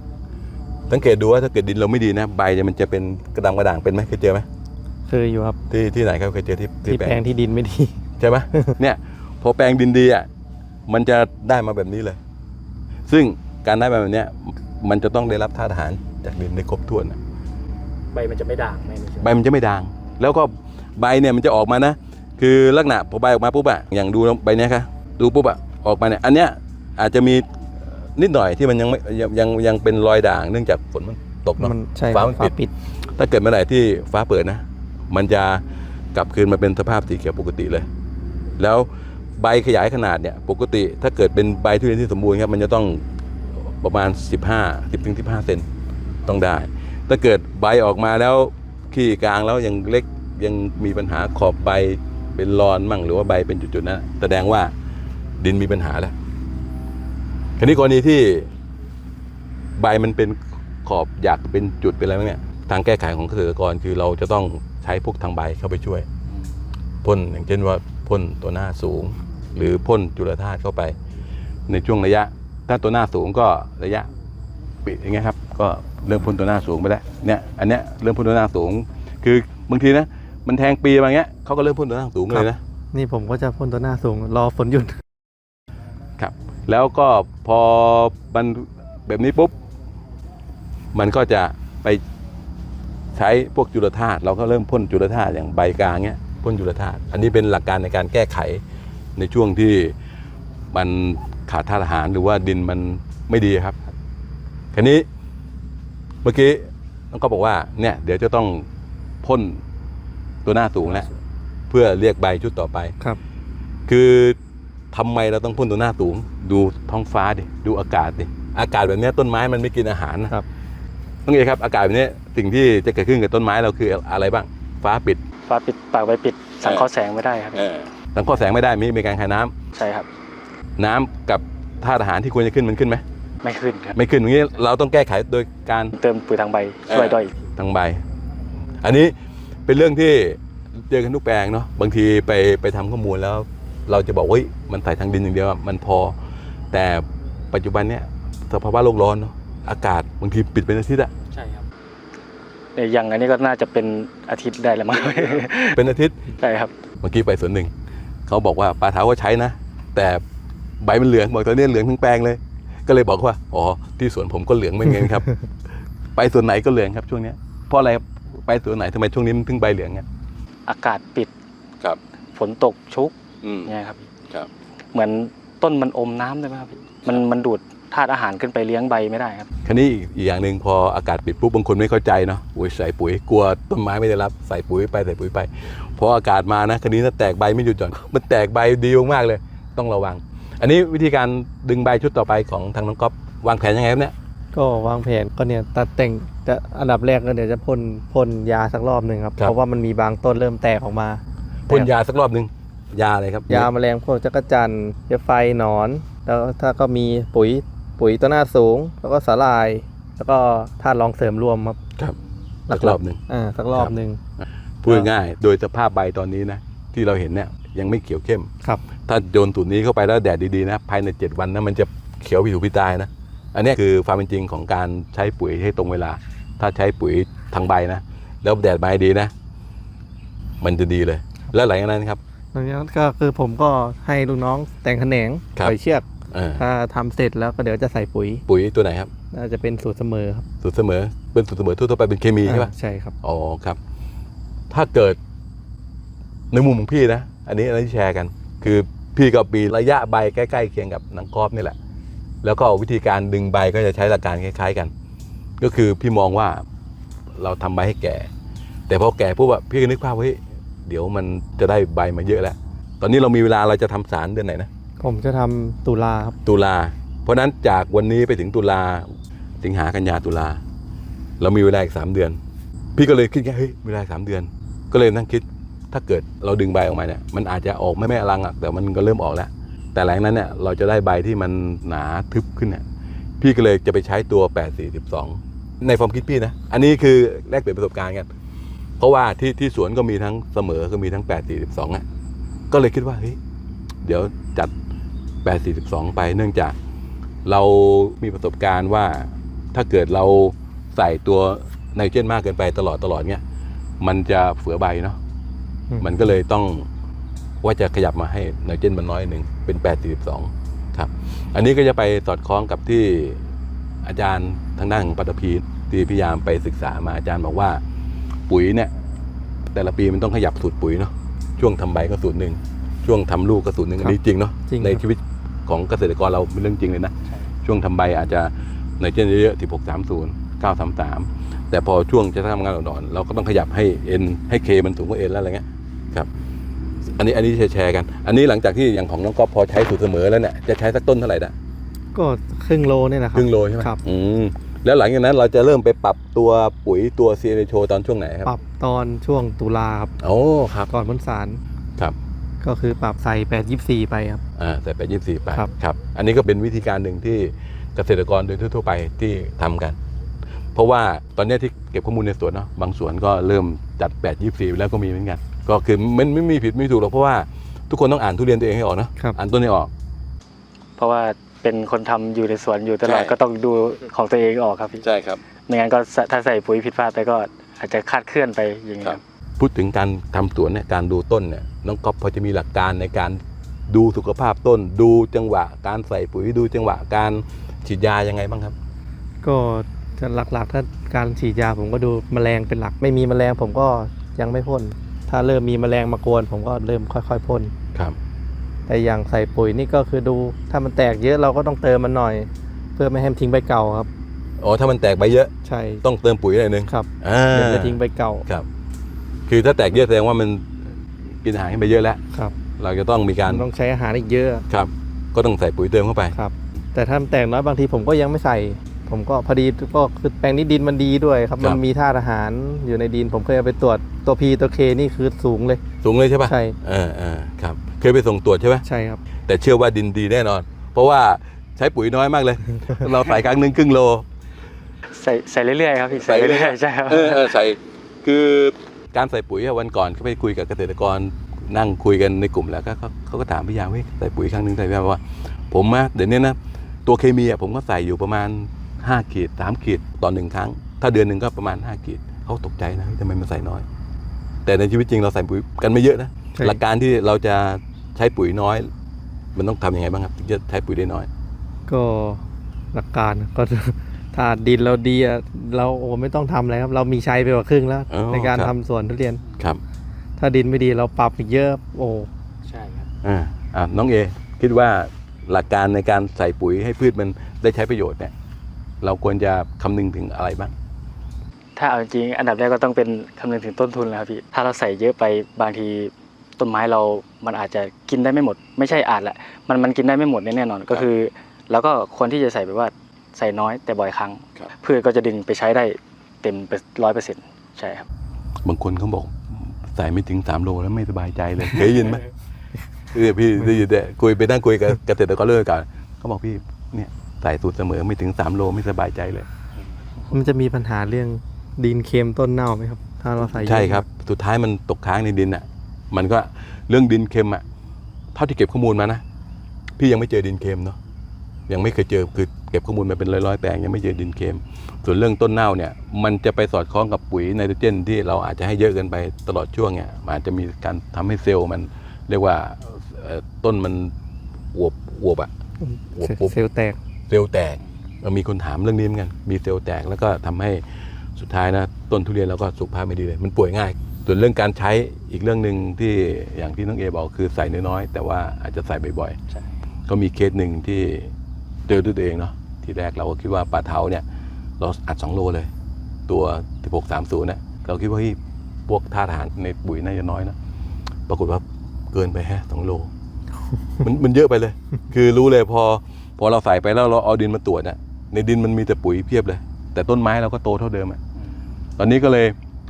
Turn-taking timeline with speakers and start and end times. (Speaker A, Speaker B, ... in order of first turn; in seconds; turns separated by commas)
Speaker A: 0.9-4.5, Speaker B: 5.1-5.6, Speaker A: 5.7-7.2, Speaker B: 6.8-8.0, Speaker A: 8.2-10.3, Speaker A: 10.9-12.2, Speaker A: 13.1-17.2, Speaker C: 18.1-19.3, Speaker A: 19.2-27.5, Speaker A: 28.1-32.5, Speaker B: 31.6-32.7, Speaker A: 33.2-35.6, Speaker A: 36.1-37.9, Speaker A: 38.6-43.0, Speaker A: 43.8-45.7, Speaker A: 46.2-54.7, Speaker A: 55.4-56.1, Speaker A: 57.6-58.5, Speaker A: 59.8-66.1, Speaker A: 67.0-71.0, Speaker A: 71.7-74.1, Speaker A: 74.8-82.6, Speaker B: 82.3-85.0, Speaker A: 86.2-89.5, Speaker A: 90.9-92.0, Speaker A: 93.1-98.6, Speaker A: 99.2-99.9, Speaker A: 100.7-103.8, Speaker A: 104.7-105.1, Speaker A: 106.2-108.6, Speaker A: 109.2-109.6, Speaker A: 110.4-111.1, Speaker A: 111.7-113.0, Speaker A: 113.9-114.4, Speaker A: 114.9-120.3, Speaker A: 121.2-125.2, Speaker C: 125.5-127.7, Speaker A: 127.5-129.5, Speaker C: 129.7-130.1, Speaker A: 130.8-133.0, Speaker C: 133.4-133.9, Speaker A: 133.9-135.9, Speaker C: 135.9-137.3, Speaker A: 136.9-138.0, Speaker A: 138.8-139.1, Speaker A: 139.7-146.1, Speaker A: 146.7-151.1, Speaker C: 151.3-151.7, Speaker C: 152.8-155.8, Speaker A: 155.7-156.2, Speaker C: 156.4-156.7, Speaker A: 157.0-157.7, Speaker A: 158.3-160.2, Speaker A: 160.8-165.4, Speaker A: 166.2-170.0, Speaker C: 170.7-171.3, Speaker C: 172.3-173.1, Speaker A: 173.4-173.7, Speaker C: 173.6-174.1, Speaker C: 174.9-179.5, Speaker A: 179.6-194.1, Speaker B: 194.5-201.9, Speaker A: 201.7-203.7, Speaker B: 203.5-211.8, Speaker B: 212.7-214.2, Speaker A: 212.7-213.2, Speaker A: 213.7-218.5, Speaker A: 219.1-229.3, Speaker A: 230.6-232.2, Speaker B: 232.5-236.1, Speaker A: 236.3-236.6, Speaker B: 236.6-238.4, Speaker A: 238.5-239.1, Speaker B: 239.3-240.4, Speaker A: 240.6-242.7, Speaker B: 242.4-243.1, Speaker A: 243.2-243.8, Speaker A: 244.7-245.2, Speaker A: 246.5-251.8, Speaker A: 252.4-254.9, Speaker A: 255.6-256.6, Speaker A: 257.4-258.3, Speaker A: 258.9-264.7, Speaker B: 265.0-266.4, Speaker A: 266.4-269.1, Speaker A: 269.6-270.6, Speaker A: 271.4-272.4, Speaker A: 272.9-282.8, Speaker A: 283.4-288.3, Speaker A: 289.0-292.0, Speaker A: 292.7-293.4, Speaker A: 294.0-294.7, Speaker A: 295.4-296.7, Speaker A: 297.4-303.4, Speaker A: 304.0-305.2, Speaker A: 306.0-306.9, Speaker A: 307.6-313.4, Speaker A: 314.0-317.8, Speaker A: 318.5-318.9, Speaker A: 319.7-327.1, Speaker B: 324.7-325.0, Speaker A: 327.6-336.3, Speaker A: 337.2-341.5, Speaker B: 342.1-344.0, Speaker A: 343.3-348.5, Speaker B: 348.4-350.1, Speaker A: 350.2-350.9, Speaker B: 350.9-351.6, Speaker B: 352.6-354.4, Speaker A: 354.6-360.0, Speaker A: 360.7-369.9, Speaker C: 371.0-375.0, Speaker A: 373.0-373.3, Speaker A: 375.0-375.4, Speaker C: 375.6-379.2, Speaker A: 379.0-388.7, Speaker B: 389.4-397.7, Speaker B: 398.9-404.1, Speaker A: 404.6-405.5, Speaker B: 405.6-406.0, Speaker A: 406.0-408.6, Speaker B: 406.9-408.4, Speaker A: 409.5-410.7, Speaker A: 411.4-412.2, Speaker A: 412.8-413.6, Speaker B: 413.4-414.6, Speaker A: 414.7-416.3, Speaker B: 416.3-425.8, Speaker A: 426.0-428.8, Speaker B: 426.4-426.8, Speaker B: 428.8-429.2, Speaker A: 429.5-434.2, Speaker C: 435.1-437.5, Speaker A: 436.1-453.9, Speaker A: 454.6-458.9, Speaker A: 459.5-461.3, Speaker B: 461.9-469.4, Speaker A: 468.1-468.7, Speaker B: 470.4-472.3, Speaker C: 472.6-473.1, Speaker A: 473.2-478.3, Speaker A: 479.0-480.7, Speaker C: 481.8-498.1, Speaker A: 498.6-502.3, Speaker A: 503.1-509.5, Speaker B: 510.3-514.0, Speaker A: 513.4-517.6, Speaker A: 518.3-519.2, Speaker A: 520.0-521.0, Speaker A: 521.7-534.1, Speaker A: 534.7-535.5, Speaker B: 535.8-537.0, Speaker A: 536.1-536.5, Speaker A: 537.3-540.8, Speaker A: 541.4-549.4, Speaker A: 550.1-551.3, Speaker A: 551.9-554.2, Speaker A: 554.8-555.7, Speaker A: 556.3-560.5, Speaker A: 561.3-563.1, Speaker A: 564.0-571.2, Speaker A: 572.0-572.5